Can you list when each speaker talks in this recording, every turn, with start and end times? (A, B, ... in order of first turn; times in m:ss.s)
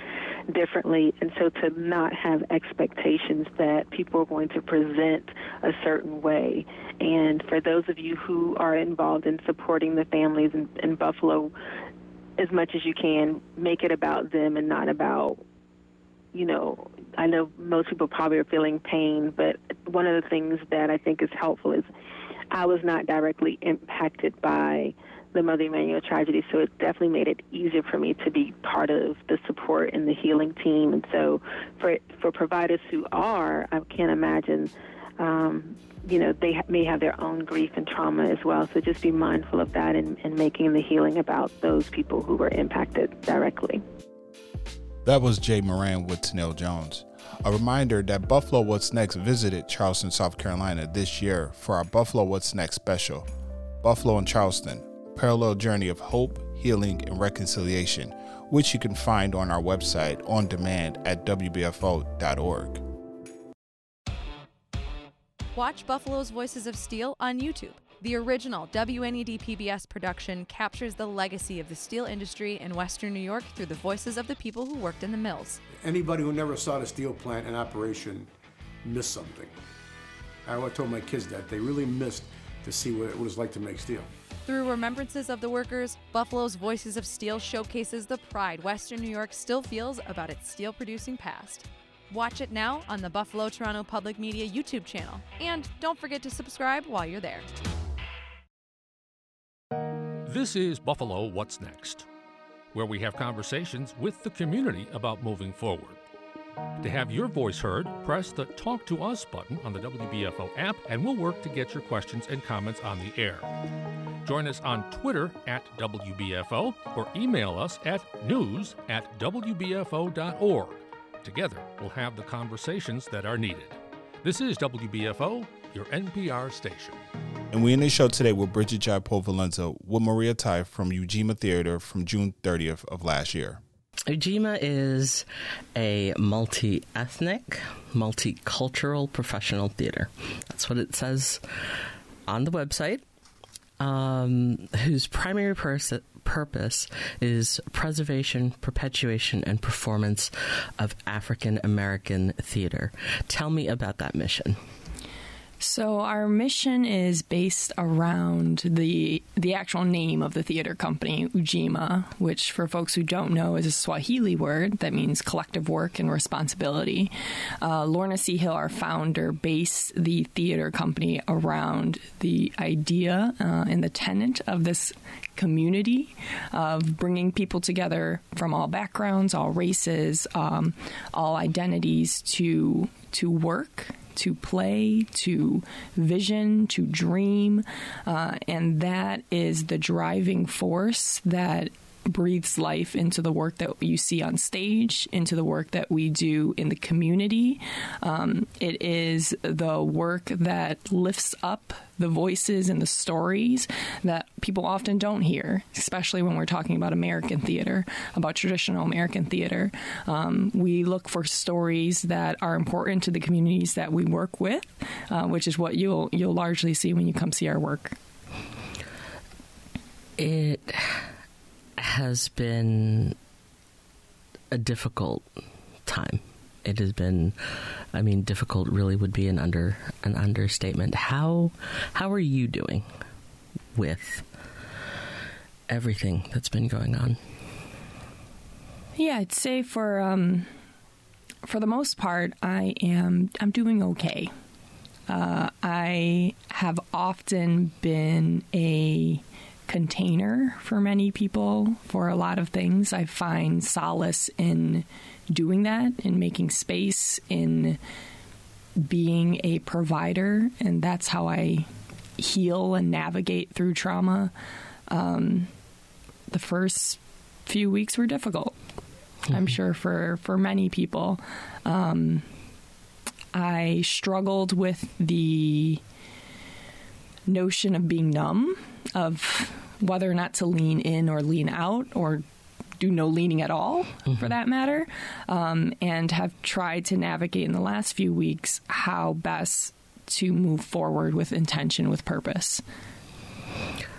0:00.5-0:11.5 A
0:12.4-0:15.4 A
0:16.3-0:21.9 A
0:22.5-0:43.8 A
0:45.0-0:53.3 B
0:53.8-1:02.8 B
1:05.5-1:15.6 C
1:15.8-1:18.3 D
1:18.8-1:19.6 D
1:20.4-1:24.1 D
1:24.5-1:37.5 C
1:40.2-1:42.1 E
1:42.7-1:46.0 E
1:46.8-1:53.5 E
1:54.2-2:07.0 E
2:07.5-2:13.6 B
2:14.1-2:23.0 F
2:23.8-2:34.6 F
2:35.6-3:38.0 G
3:40.2-3:41.1 F
3:41.8-3:43.2 F
3:44.5-3:45.2 F
3:45.8-3:52.9 F
3:53.7-3:54.3 F
3:55.7-3:57.2 F
3:59.0-4:00.5 G
4:01.4-4:04.3 G
4:05.1-4:17.8 G
4:18.8-4:24.3 G
4:24.9-4:25.5 G
4:26.3-4:28.6 G
4:29.3-4:32.2 G
4:33.3-4:35.8 G
4:37.3-4:42.2 G
4:42.8-4:52.6 G